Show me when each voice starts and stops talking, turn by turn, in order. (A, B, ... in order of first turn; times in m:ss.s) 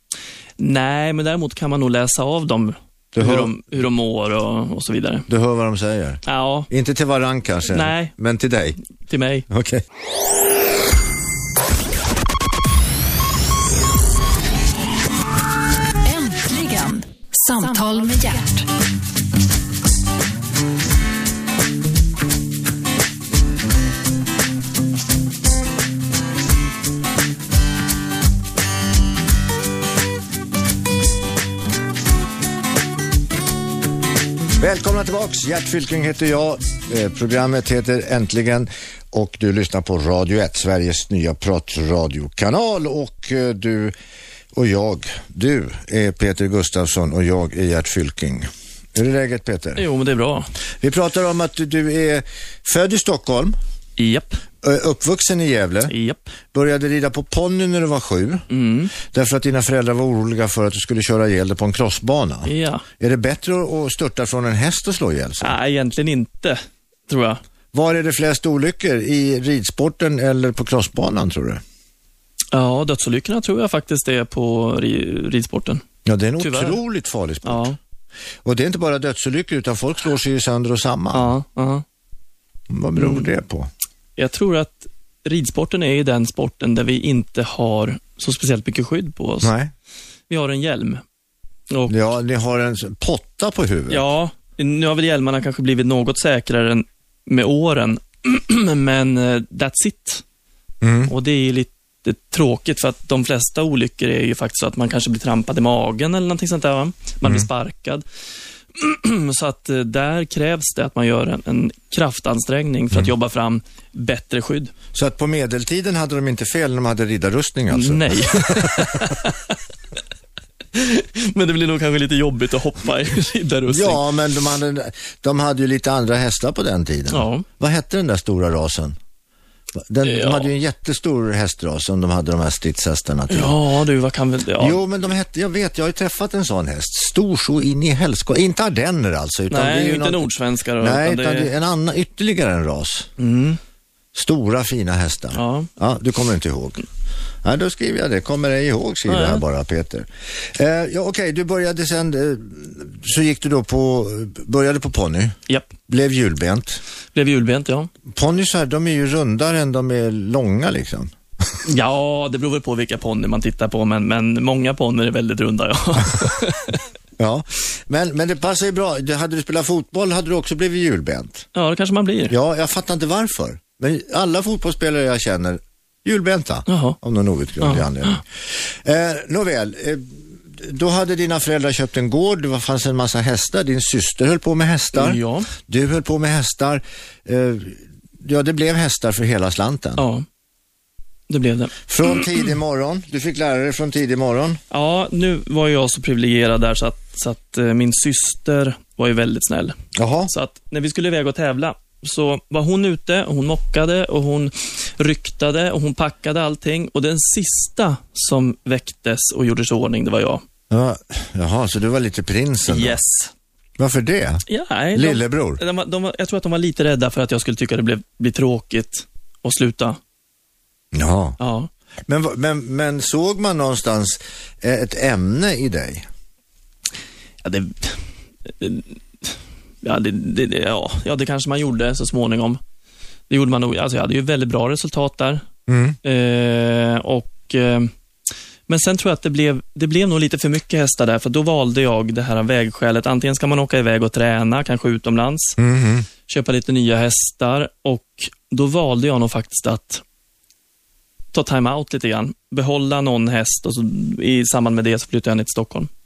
0:00.6-0:05.3 A
0:03.1-0:03.5 B
0:05.3-0:08.8 B
0:06.2-0:06.7 A
0:07.7-0:08.1 A
0:09.1-0:09.5 A
0:09.5-0:09.8 B
0:16.0-0:18.7 C
0:34.6-0:43.9 B
0:44.5-0:49.8 B
0:49.8-0:50.5 A
0:50.8-0:53.6 B
0:54.0-0:54.4 A
0:54.6-0:55.9 B
0:55.9-0:56.2 A
0:56.5-0:58.4 B
0:58.5-0:58.9 A
0:59.0-1:05.6 B
1:02.4-1:02.8 A
1:05.4-1:07.4 A
1:07.7-1:11.6 B
1:12.5-1:15.8 A
1:16.0-1:17.7 B
1:16.4-1:16.8 A
1:17.4-1:17.8 A
1:18.4-1:21.3 B
1:21.1-1:21.8 A
1:22.7-1:23.7 B
1:23.0-1:23.3 A
1:24.2-1:29.5 A
1:29.4-1:29.7 B
1:30.3-1:31.0 A
1:31.7-1:32.0 A
1:31.9-1:34.0 B
1:33.9-1:40.2 A
1:40.8-1:41.1 B
1:41.1-1:48.0 A
1:48.7-1:54.7 A
1:54.9-1:59.1 B
1:57.7-1:59.6 A
2:00.7-2:04.0 A
2:03.7-2:09.0 B
2:07.1-2:07.4 A
2:09.7-2:13.6 B
2:10.0-2:10.5 A
2:13.3-2:14.8 A
2:14.6-2:20.3 B
2:19.5-2:21.5 A
2:20.8-2:23.1 B
2:23.2-2:23.6 A
2:24.1-2:26.8 B
2:25.3-2:25.7 A
2:27.4-2:35.4 B
2:29.1-2:29.4 A
2:35.9-2:36.8 B
2:37.1-2:37.9 A
2:38.1-2:41.1 B
2:41.6-2:46.8 A
2:47.2-2:51.5 B
2:51.5-2:52.3 A
2:52.3-3:10.0 B
2:56.7-2:57.0 A
2:57.6-2:58.2 A
3:04.9-3:05.5 A
3:10.0-3:10.2 A
3:11.3-3:12.2 A
3:11.9-3:14.6 B
3:14.7-3:19.8 A
3:19.9-3:20.3 B
3:20.3-3:30.4 A
3:30.7-3:33.0 B
3:32.6-3:33.3 A
3:33.8-3:34.4 B
3:34.5-3:40.0 A
3:34.9-3:35.6 B
3:40.9-3:41.4 B
3:41.4-3:41.7 A
3:42.1-3:46.1 B
3:47.4-3:52.6 A
3:53.3-3:55.4 A
3:55.7-3:56.0 B
3:56.0-3:57.9 A
3:58.7-4:05.6 A
4:05.6-4:06.0 B
4:06.3-4:10.0 A
4:11.3-4:15.9 A